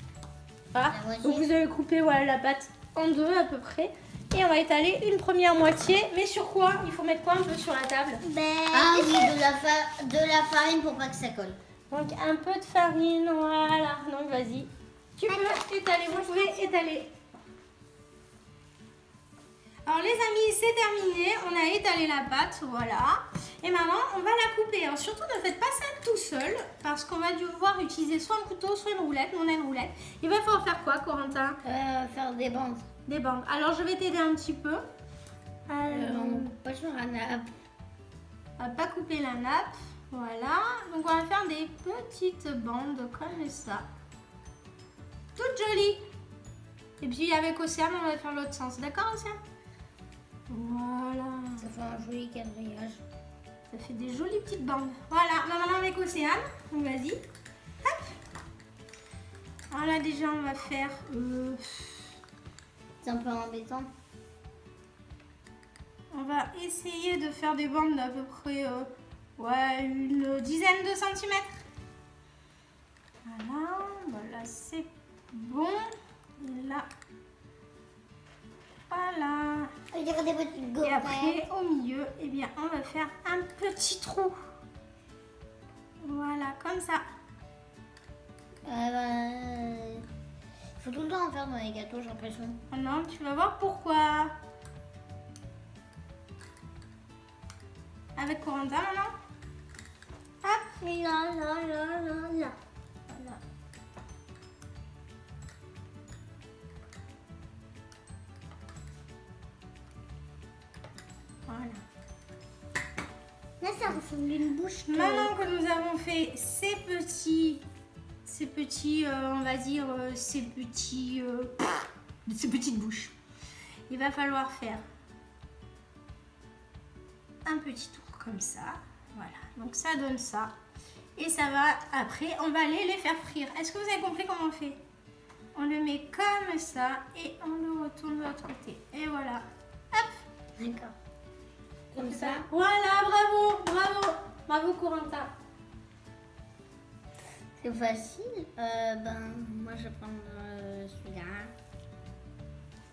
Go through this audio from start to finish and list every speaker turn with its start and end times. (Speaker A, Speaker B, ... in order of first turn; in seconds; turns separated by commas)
Speaker A: 0.7-8.2, Speaker B: 0.9-1.5, Speaker C: 8.2-9.3, Speaker B: 8.7-11.6, Speaker A: 11.9-17.1, Speaker C: 15.3-15.6, Speaker A: 19.9-31.6, Speaker B: 31.6-32.9, Speaker A: 33.1-34.8, Speaker A: 35.7-36.5, Speaker B: 35.9-37.5, Speaker A: 38.6-43.9, Speaker A: 45.4-46.0, Speaker A: 47.0-49.4, Speaker A: 50.5-51.7, Speaker B: 51.6-53.0, Speaker A: 53.7-57.2, Speaker A: 57.8-58.2, Speaker A: 59.7-62.1, Speaker B: 63.0-63.9, Speaker A: 66.1-71.6, Speaker A: 73.2-76.9, Speaker A: 78.9-79.7, Speaker B: 79.9-81.5, Speaker A: 80.8-84.4, Speaker A: 86.0-87.0, Speaker B: 88.6-90.0, Speaker B: 90.8-92.6, Speaker A: 92.7-94.3, Speaker A: 98.2-99.1, Speaker C: 100.4-102.6, Speaker A: 103.1-103.4, Speaker A: 111.5-111.8, Speaker C: 113.6-115.4, Speaker A: 114.9-117.6, Speaker A: 118.2-123.2, Speaker A: 123.9-124.8, Speaker A: 127.5-130.5, Speaker A: 131.2-134.8, Speaker A: 135.5-140.2, Speaker B: 140.6-140.9, Speaker B: 141.9-142.5, Speaker A: 141.9-145.3, Speaker B: 147.6-151.5